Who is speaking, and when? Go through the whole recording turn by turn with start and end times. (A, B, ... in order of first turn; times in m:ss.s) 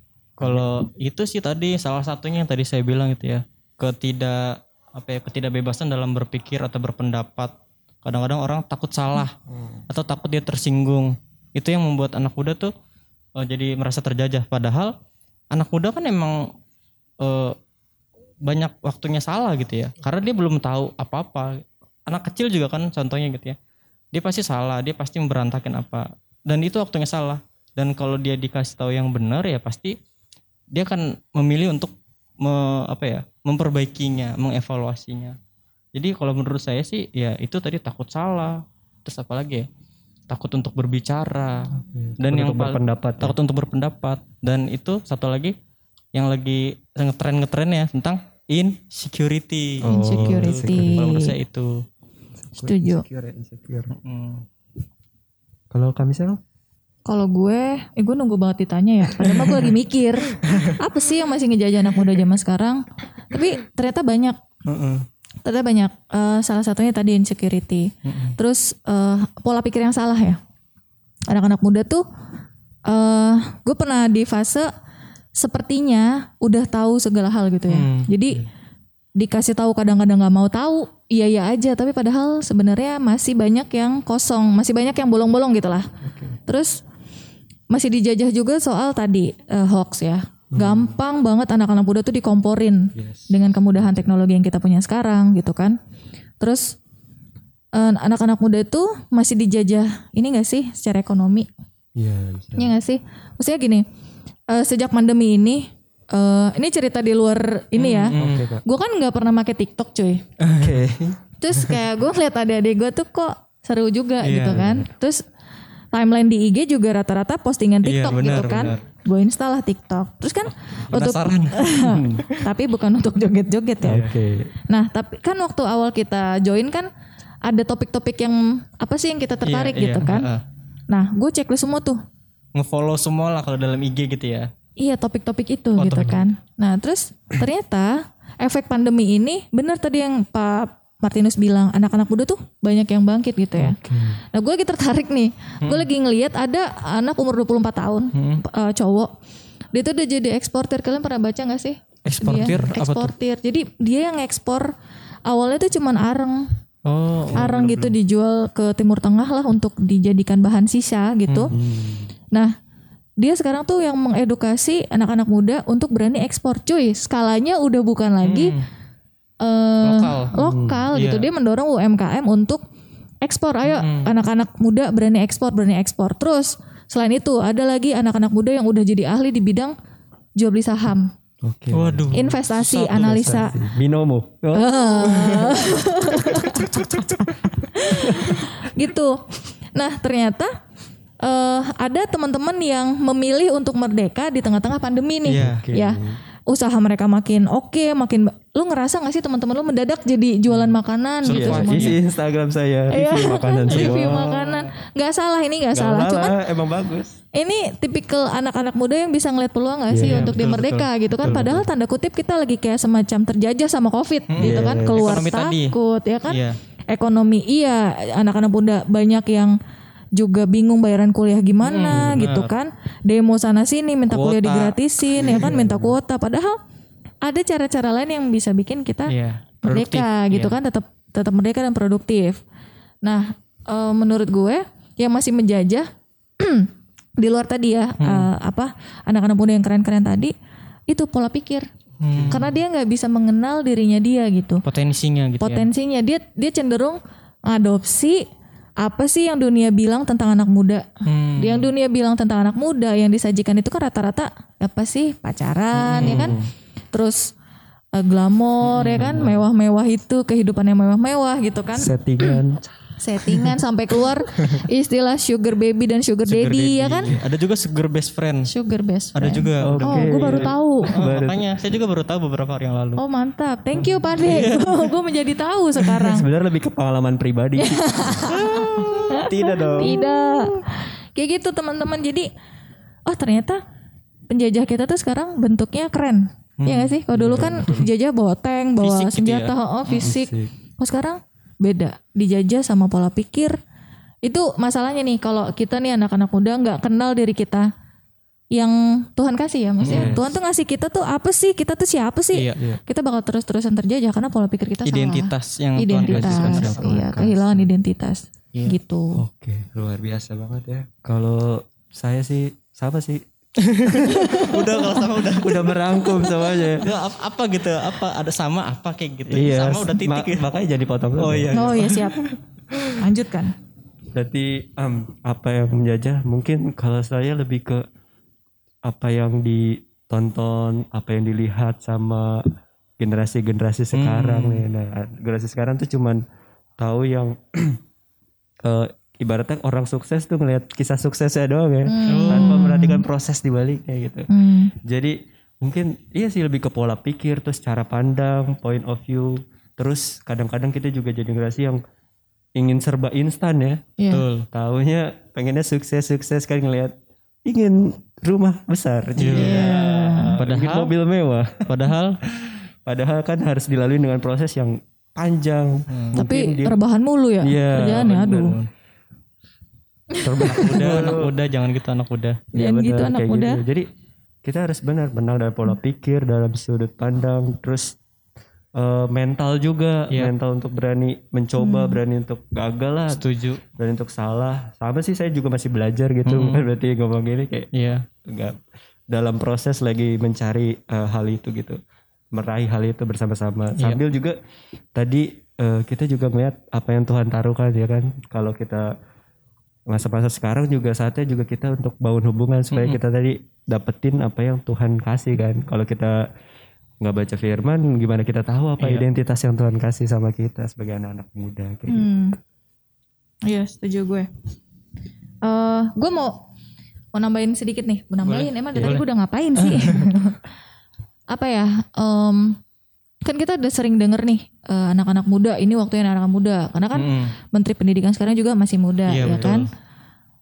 0:00.4-0:09.3 A
0:00.4-0:00.7 B
0:09.5-0:09.8 B
0:09.9-0:12.7 A
0:13.4-0:14.9 A
0:15.5-0:16.5 A
0:17.2-0:17.6 A
0:18.4-0:23.6 A
0:24.1-0:30.0 A
0:30.7-0:35.4 A
0:35.9-0:39.7 A
0:40.3-0:45.5 A
0:41.8-0:43.3 B
0:46.1-0:51.8 A
0:49.8-0:51.0 B
0:49.8-0:51.3 C
0:52.4-0:53.9 B
0:52.6-0:53.0 C
0:53.9-0:54.4 A
0:55.7-0:56.4 B
0:57.0-1:04.4 C
1:00.4-1:00.7 A
1:04.6-1:05.0 A
1:05.4-1:10.4 C
1:08.0-1:08.4 A
1:11.3-1:12.0 C
1:12.8-1:14.7 C
1:15.3-1:18.4 C
1:17.7-1:18.1 A
1:19.2-1:25.9 C
1:26.0-1:26.3 B
1:26.5-1:26.8 C
1:27.7-1:35.8 C
1:30.5-1:30.9 B
1:32.9-1:34.1 B
1:36.4-1:36.8 C
1:37.7-1:41.5 C
1:42.0-1:42.7 B
1:42.6-1:43.8 C
1:44.5-1:50.2 C
1:47.7-1:48.5 A
1:48.1-1:48.6 B
1:50.4-1:50.8 A
1:50.6-1:51.2 B
1:51.4-1:55.2 C
1:54.2-1:54.7 A
1:54.5-1:54.8 B
1:55.9-2:04.1 C
1:57.8-1:58.8 A
2:00.9-2:01.7 A
2:01.8-2:02.3 B
2:03.8-2:04.5 B
2:03.8-2:04.1 A
2:04.7-2:06.9 C
2:07.4-2:10.3 C
2:09.4-2:10.4 A
2:10.9-2:12.0 C
2:12.5-2:14.5 A
2:14.8-2:23.8 C
2:15.8-2:16.3 A
2:23.6-2:24.2 B
2:24.3-2:29.1 C
2:25.6-2:25.9 A
2:28.1-2:28.4 A
2:29.7-2:34.7 C
2:32.0-2:33.1 A
2:35.2-2:36.5 C
2:36.8-2:37.9 A
2:37.4-2:41.5 C
2:41.3-2:41.5 A
2:41.5-2:42.1 B
2:43.2-2:48.5 C
2:48.2-2:48.6 A
2:49.4-2:52.6 C
2:49.8-2:50.4 A
2:50.3-2:50.9 B
2:50.9-2:51.3 A
2:53.2-2:59.7 C
2:53.6-2:54.1 A
3:00.4-3:01.1 C
3:01.4-3:02.1 B
3:01.7-3:03.5 A
3:02.1-3:03.6 C
3:03.0-3:05.6 B
3:04.5-3:06.7 C
3:05.0-3:07.5 A
3:06.2-3:06.6 B
3:07.6-3:09.2 C
3:07.9-3:08.4 B
3:09.7-3:10.5 C
3:11.2-3:22.0 C
3:15.2-3:15.6 A
3:15.3-3:16.2 B
3:20.5-3:22.0 A
3:21.3-3:24.2 B
3:22.9-3:26.4 C
3:23.7-3:24.7 A
3:25.7-3:27.2 B
3:27.3-3:39.6 C
3:29.9-3:30.3 B
3:30.0-3:31.6 A
3:31.3-3:31.6 B
3:34.3-3:35.8 A
3:34.4-3:35.0 B
3:36.3-3:36.6 A
3:40.1-3:46.6 C
3:41.6-3:42.5 A
3:41.9-3:42.2 B
3:44.1-3:45.5 A
3:45.1-3:46.0 B
3:47.2-3:49.1 C
3:49.1-3:50.6 A
3:49.6-3:52.4 C
3:53.0-3:55.9 C
3:56.4-4:00.3 C
3:58.0-3:58.3 A
4:00.9-4:01.7 C
4:02.0-4:02.5 A
4:02.1-4:02.5 B
4:02.3-4:04.6 C
4:04.6-4:05.7 A
4:05.4-4:08.2 C
4:08.8-4:16.4 C
4:11.0-4:11.7 A
4:15.8-4:16.5 B
4:15.9-4:16.4 A
4:16.9-4:17.3 C
4:17.9-4:21.9 C
4:18.6-4:19.4 A
4:19.0-4:19.2 B
4:21.7-4:22.6 B
4:23.0-4:27.1 C
4:26.2-4:28.5 A
4:28.5-4:30.9 C
4:29.1-4:33.0 A
4:29.6-4:31.4 B
4:33.0-4:36.2 C
4:34.1-4:34.9 A
4:35.8-4:36.2 A
4:36.1-4:39.2 B
4:37.6-4:42.3 C
4:38.3-4:40.0 A
4:43.1-4:43.6 C
4:44.3-4:53.6 C
4:46.6-4:47.7 A
4:47.1-4:47.9 B
4:48.8-4:50.1 A
4:50.0-4:50.5 B
4:54.2-4:57.7 C
4:58.5-5:09.2 C
4:59.8-5:00.2 A
4:59.8-5:00.4 B
5:02.3-5:02.6 A
5:04.8-5:07.1 A
5:06.0-5:07.7 B
5:09.2-5:13.2 B
5:13.6-5:16.0 A
5:13.8-5:14.4 B
5:14.2-5:15.1 C
5:15.3-5:16.9 B
5:16.8-5:20.5 A
5:19.3-5:21.7 B
5:21.2-5:22.8 A
5:21.5-5:22.2 C
5:22.9-5:23.5 C
5:24.1-5:27.8 B
5:28.8-5:36.2 B
5:33.9-5:34.6 A
5:36.8-5:37.8 B
5:38.6-5:44.3 B
5:41.9-5:42.9 C
5:42.0-5:43.0 A
5:44.3-5:44.7 C
5:44.8-5:51.8 B
5:52.6-5:53.8 B
5:54.0-5:54.2 C
5:54.1-5:54.5 A
5:54.5-5:56.9 B
5:57.4-6:01.7 B
5:59.2-5:59.8 A
5:59.3-6:00.3 C
6:00.3-6:00.9 A
6:01.7-6:02.2 A
6:02.4-6:06.8 B
6:05.9-6:06.2 A
6:06.2-6:08.6 C
6:07.4-6:08.6 B
6:07.8-6:08.7 A
6:10.1-6:10.8 C
6:10.2-6:11.3 B
6:10.4-6:12.4 A
6:12.5-6:13.6 C
6:12.5-6:13.8 B
6:14.4-6:18.0 B
6:18.7-6:23.2 B
6:21.6-6:22.0 C
6:23.1-6:23.6 A
6:23.8-6:27.7 B
6:26.2-6:26.6 A
6:27.7-6:28.0 A
6:28.2-6:28.6 B
6:29.1-6:31.8 B
6:32.3-6:34.4 B
6:34.9-6:38.9 B
6:39.9-6:46.2 B
6:42.7-6:43.0 A
6:47.0-6:52.1 B
6:48.8-6:49.0 A
6:51.9-6:52.4 C
6:53.4-6:54.3 C
6:55.4-6:56.4 C
6:57.1-7:00.4 C
6:58.2-6:59.0 A
6:59.6-7:00.1 A
7:01.3-7:02.6 C
7:03.2-7:09.7 C
7:06.9-7:07.4 A
7:09.1-7:09.7 A
7:09.2-7:09.6 B